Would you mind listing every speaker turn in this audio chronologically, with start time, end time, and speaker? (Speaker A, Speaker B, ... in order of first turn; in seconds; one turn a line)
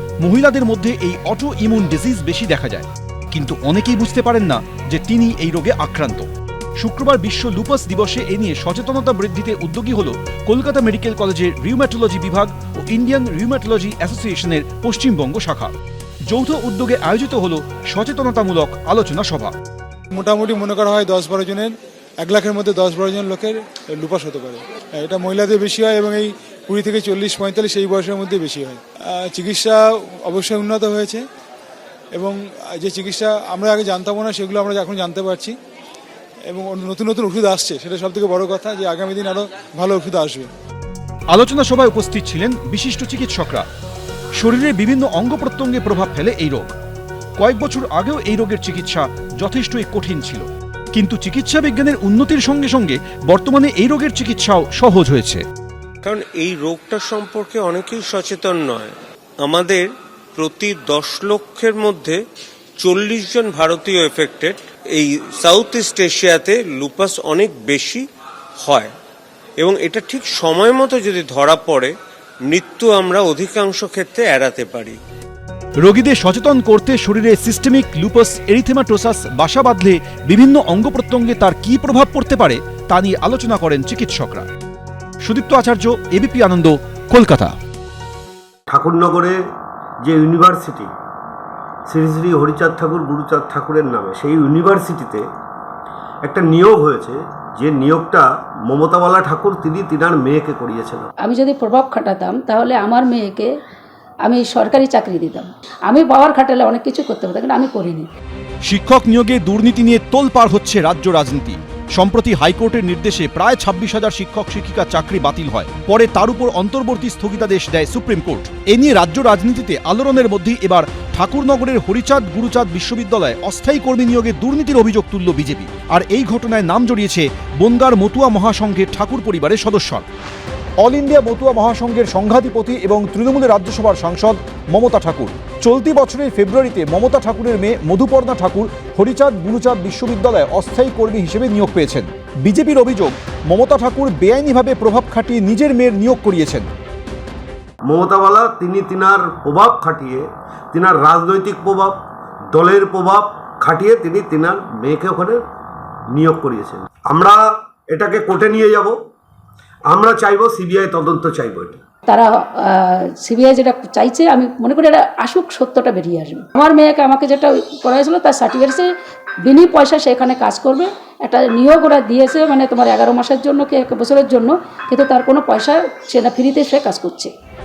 Speaker A: 0.2-6.2
Speaker A: 6.8-15.7
Speaker A: 16.3-19.5
Speaker B: 20.1-31.2
Speaker B: 32.1-35.5
Speaker B: 36.5-40.5
Speaker A: 41.3-43.7
Speaker A: 44.4-46.7
Speaker A: 47.4-55.4
Speaker C: 56.0-62.2
Speaker C: 62.8-68.0
Speaker C: 68.6-68.9
Speaker C: 69.6-71.9
Speaker C: 72.5-75.0
Speaker A: 75.8-84.5
Speaker A: 85.2-87.5
Speaker D: 88.7-89.4
Speaker D: 90.0-90.9
Speaker D: 91.9-95.2
Speaker D: 96.2-101.1
Speaker E: 101.2-103.5
Speaker E: 104.2-108.1
Speaker A: 108.6-130.0
Speaker A: 130.8-146.7
Speaker D: 147.8-151.9
Speaker D: 152.5-155.4
Speaker D: 156.1-158.9
Speaker D: 159.9-161.8
Speaker E: 162.1-168.8
Speaker E: 169.4-177.3